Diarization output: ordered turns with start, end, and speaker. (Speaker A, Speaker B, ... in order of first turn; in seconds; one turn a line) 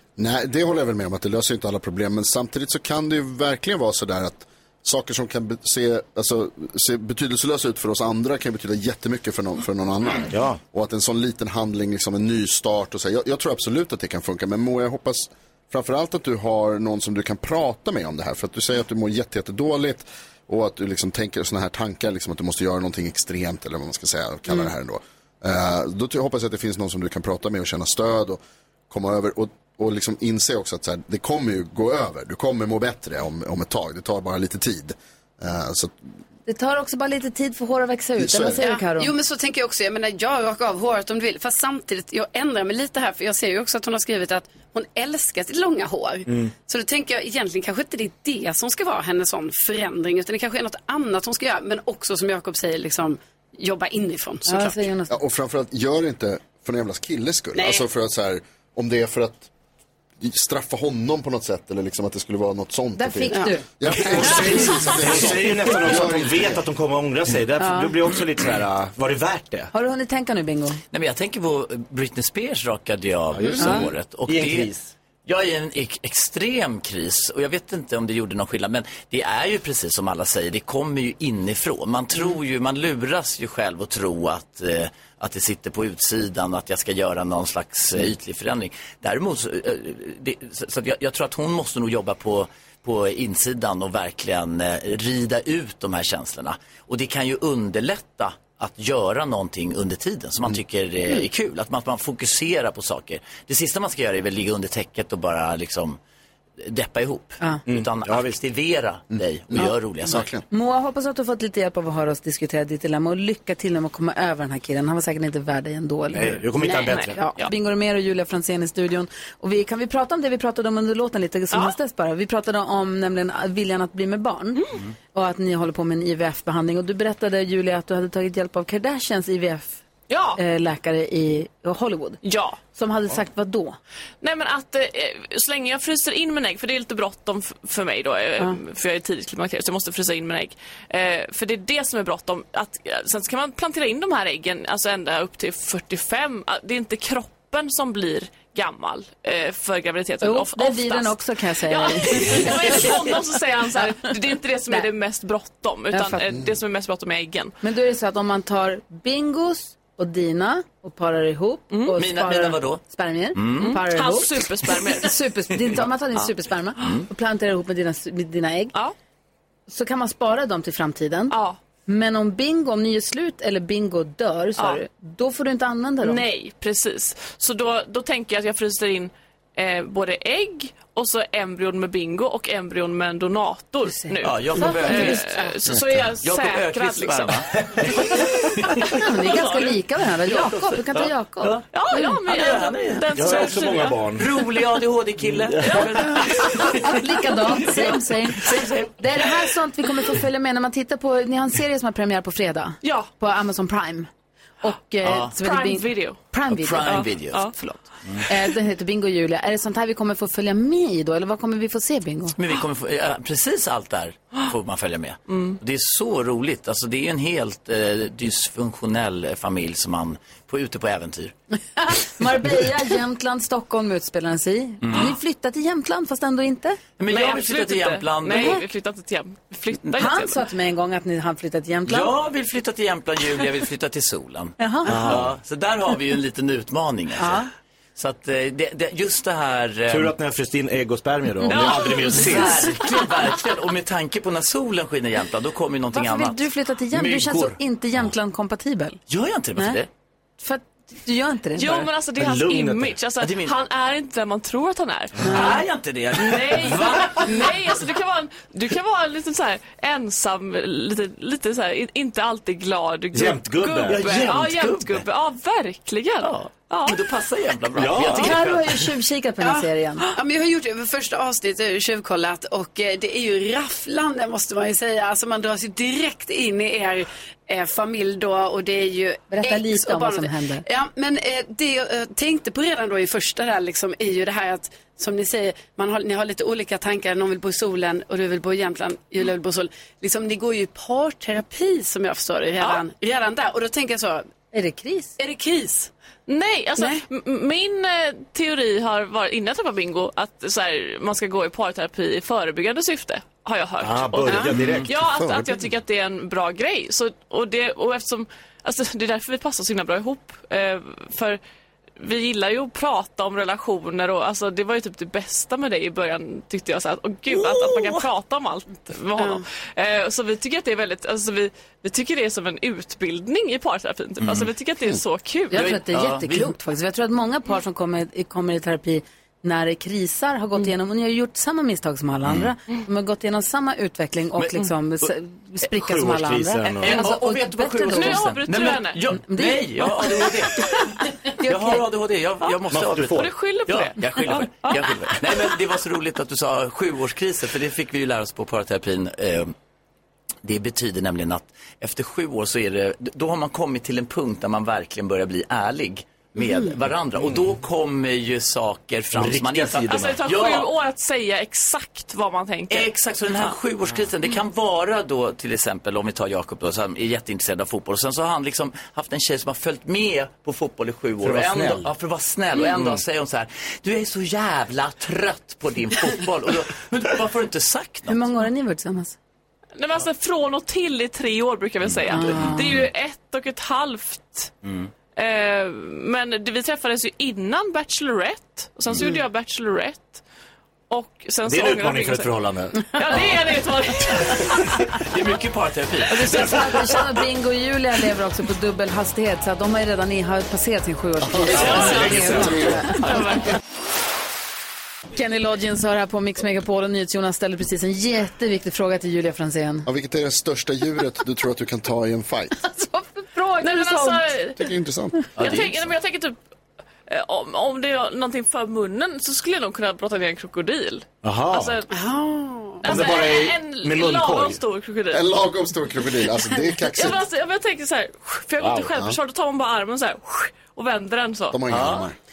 Speaker A: 0.2-28.4
Speaker B: 10.3-10.6
Speaker A: 28.9-36.0
Speaker C: 36.5-39.1
Speaker A: 38.2-38.6
Speaker D: 38.5-54.8
Speaker C: 54.5-55.2
Speaker A: 55.1-59.5
Speaker D: 57.5-57.9
Speaker A: 60.2-66.6
Speaker C: 63.0-63.7
Speaker B: 63.9-69.7
Speaker C: 67.6-67.9
Speaker C: 69.7-70.8
Speaker E: 70.9-74.7
Speaker B: 73.3-74.9
Speaker E: 75.3-106.0
Speaker E: 106.6-110.3
Speaker B: 107.7-108.4
Speaker A: 109.1-110.4
Speaker C: 110.5-129.8
Speaker B: 116.1-117.2
Speaker F: 116.8-117.5
Speaker F: 130.1-130.4
Speaker C: 130.3-133.8
Speaker F: 132.2-132.6
Speaker F: 134.2-157.6
Speaker C: 150.2-153.2
Speaker C: 155.9-156.2
Speaker C: 157.6-168.8
Speaker E: 161.9-162.8
Speaker E: 163.3-163.8
Speaker F: 163.6-165.2
Speaker E: 166.8-167.1
Speaker C: 169.7-176.2
Speaker F: 171.3-171.6
Speaker F: 176.0-187.4
Speaker C: 183.9-185.6
Speaker E: 184.2-189.7
Speaker B: 187.6-187.9
Speaker C: 188.9-192.2
Speaker E: 190.2-191.7
Speaker F: 191.7-194.1
Speaker E: 192.2-197.0
Speaker B: 193.1-194.3
Speaker B: 195.5-195.9
Speaker C: 196.6-204.1
Speaker E: 197.5-199.0
Speaker F: 202.8-203.1
Speaker C: 204.6-212.4
Speaker E: 205.0-205.4
Speaker F: 205.4-206.2
Speaker E: 206.5-207.5
Speaker F: 206.9-207.6
Speaker E: 212.4-221.3
Speaker F: 215.3-215.6
Speaker C: 221.8-226.8
Speaker E: 224.8-225.2
Speaker E: 227.0-228.6
Speaker F: 227.1-230.4
Speaker C: 228.3-228.6
Speaker C: 230.0-232.1
Speaker E: 231.9-240.1
Speaker C: 234.6-235.0
Speaker B: 234.8-235.4
Speaker C: 237.2-237.5
Speaker B: 239.9-242.7
Speaker F: 241.4-242.5
Speaker E: 241.5-247.6
Speaker C: 242.1-242.6
Speaker C: 245.9-249.0
Speaker E: 249.1-249.9
Speaker C: 250.4-251.9
Speaker F: 251.6-255.6
Speaker B: 252.2-253.0
Speaker E: 253.2-253.6
Speaker E: 255.2-257.6
Speaker C: 255.2-255.6
Speaker F: 256.2-267.0
Speaker B: 263.1-264.4
Speaker E: 263.9-265.1
Speaker E: 266.2-268.9
Speaker B: 267.8-268.4
Speaker C: 268.1-270.1
Speaker D: 270.1-294.3
Speaker C: 279.3-280.6
Speaker C: 294.5-295.2
Speaker D: 295.2-295.9
Speaker F: 296.3-311.4
Speaker D: 296.8-297.1
Speaker B: 303.8-304.9
Speaker E: 304.5-304.9
Speaker A: 305.1-305.6
Speaker F: 312.0-325.7
Speaker E: 317.3-318.1
Speaker D: 319.2-319.4
Speaker E: 324.2-324.5
Speaker C: 325.5-338.4
Speaker E: 325.5-326.5
Speaker E: 332.2-332.5
Speaker E: 334.4-334.7
Speaker B: 335.8-337.1
Speaker E: 336.8-340.7
Speaker F: 337.9-339.1
Speaker C: 339.1-340.4
Speaker C: 341.3-341.9
Speaker E: 341.4-349.5
Speaker B: 342.7-343.3
Speaker F: 343.1-345.1
Speaker E: 350.4-360.7
Speaker B: 359.1-360.2
Speaker F: 359.9-362.9
Speaker E: 362.7-378.2
Speaker B: 371.2-371.9
Speaker B: 372.7-373.0
Speaker C: 378.1-379.2
Speaker F: 379.8-384.5
Speaker E: 381.8-382.8
Speaker C: 382.1-382.8
Speaker E: 384.6-384.9
Speaker F: 385.2-390.2
Speaker F: 390.9-394.6
Speaker B: 391.5-393.4
Speaker E: 395.0-396.8
Speaker C: 396.1-403.2
Speaker B: 401.5-403.0
Speaker F: 401.6-402.4
Speaker F: 403.0-403.5
Speaker C: 405.1-409.9
Speaker A: 409.9-412.6
Speaker C: 412.6-414.4
Speaker F: 413.6-414.6
Speaker A: 414.6-415.3
Speaker E: 415.4-415.9
Speaker F: 415.4-416.4
Speaker F: 417.1-421.9
Speaker B: 421.2-421.8
Speaker D: 421.9-423.0
Speaker F: 422.8-425.3
Speaker B: 422.9-424.6
Speaker A: 425.1-427.2
Speaker F: 426.9-431.6
Speaker B: 428.6-428.9
Speaker A: 428.9-429.2
Speaker A: 431.5-432.1
Speaker E: 431.7-432.1